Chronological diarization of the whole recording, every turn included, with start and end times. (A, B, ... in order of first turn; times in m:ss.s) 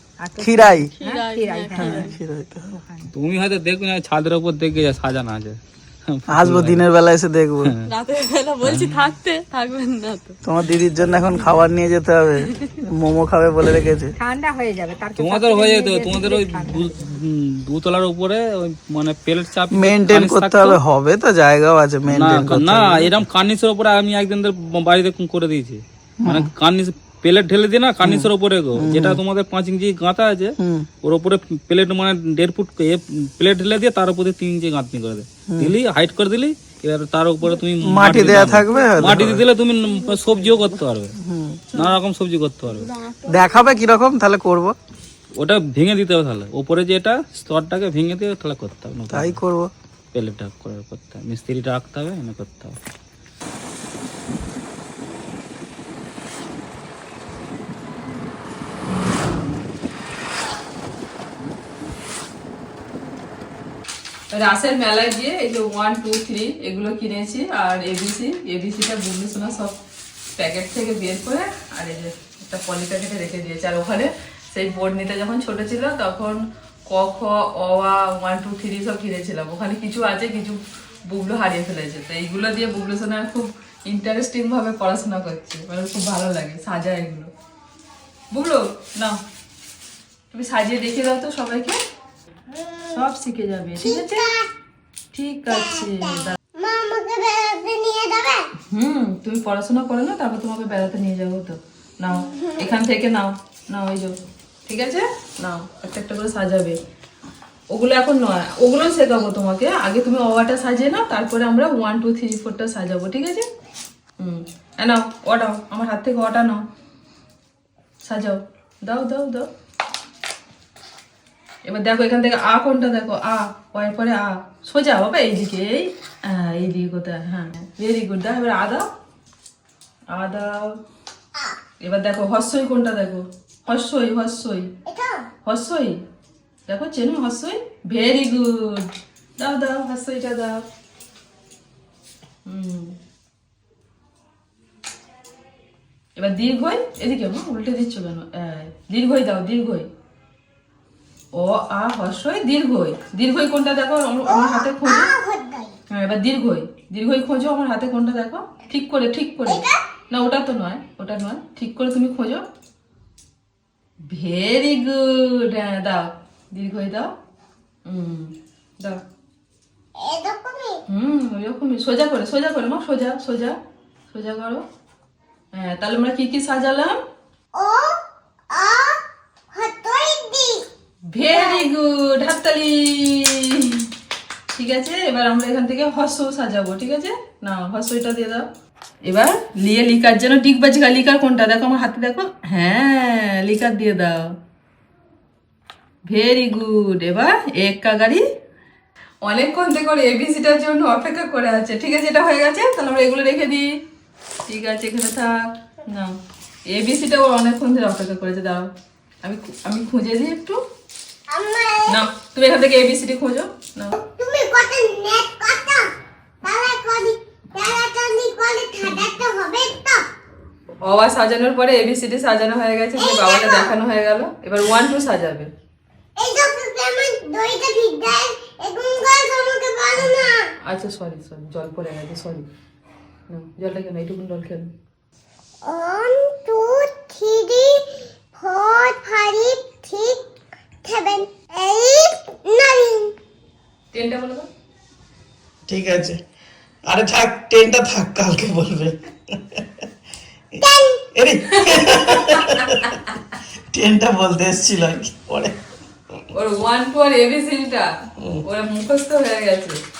0:00.2-0:02.1 A
0:00.4-0:00.9 B
0:01.0-0:02.1 C
0:01.7-0:02.7 B
0:02.7-0:03.1 A
0:03.1-0:06.8 D
0:06.3-0:07.7 B
0:07.8-0:10.4 C
0:08.6-0:09.1 D
0:10.4-0:14.1 B
0:14.2-0:17.1 A
0:15.2-0:20.8 D
0:19.7-0:23.2 B
0:22.1-0:41.1 D
0:26.2-0:26.5 B
0:28.0-0:29.2 B
0:30.6-0:30.9 B
0:35.5-0:35.7 B
0:37.8-0:39.4 B
0:40.0-0:40.7 C
0:41.2-0:41.6 B
0:41.7-0:42.9 D
0:43.0-0:43.8 C
0:43.2-0:44.8 B
0:45.4-0:49.4 D
0:49.1-0:49.7 B
0:50.1-0:52.8 D
1:04.3-1:09.8 E
1:10.4-1:27.3 E
1:28.3-1:29.2 E
1:30.3-1:31.8 E
1:32.6-1:33.0 F
1:32.9-1:34.3 E
1:33.8-1:34.5 F
1:35.1-1:36.3 E
1:35.5-1:38.4 F
1:38.7-1:44.2 E
1:44.7-1:46.8 E
1:47.7-1:53.5 E
1:54.2-1:56.6 E
1:58.0-1:59.5 E
2:01.6-2:08.8 E
2:10.1-2:10.7 E
2:11.8-2:14.7 E
2:14.8-2:15.2 F
2:15.4-2:16.0 E
2:16.7-2:20.6 E
2:22.4-2:22.9 E
2:26.2-2:29.9 E
2:31.3-2:35.1 E
2:34.3-2:35.7 F
2:35.9-2:42.4 E
2:39.4-2:39.8 F
2:44.1-2:47.1 E
2:47.8-2:49.0 E
2:50.0-2:50.8 F
2:50.9-2:53.6 E
2:54.1-2:54.6 E
2:55.5-2:57.0 E
2:57.6-2:58.0 F
2:58.5-2:59.0 F
2:59.5-3:00.6 F
3:01.1-3:03.9 E
3:01.3-3:01.7 F
3:04.5-3:08.4 E
3:09.0-3:14.2 E
3:16.1-3:18.2 E
3:19.2-3:23.7 E
3:24.5-3:26.2 E
3:26.7-3:28.7 E
3:29.2-3:30.6 E
3:31.3-3:32.1 F
3:31.9-3:33.9 E
3:34.0-3:35.9 F
3:36.4-3:40.0 F
3:40.8-3:45.5 E
3:43.0-3:43.7 F
3:46.2-3:50.5 F
3:50.0-3:52.4 E
3:53.3-3:54.7 E
3:55.6-3:57.8 F
3:58.4-4:00.2 F
4:00.8-4:03.1 F
4:03.9-4:04.4 E
4:05.7-4:06.2 B
4:06.9-4:09.6 B
4:10.6-4:11.1 F
4:11.2-4:13.0 B
4:13.7-4:15.5 B
4:16.3-4:17.8 E
4:18.4-4:19.8 E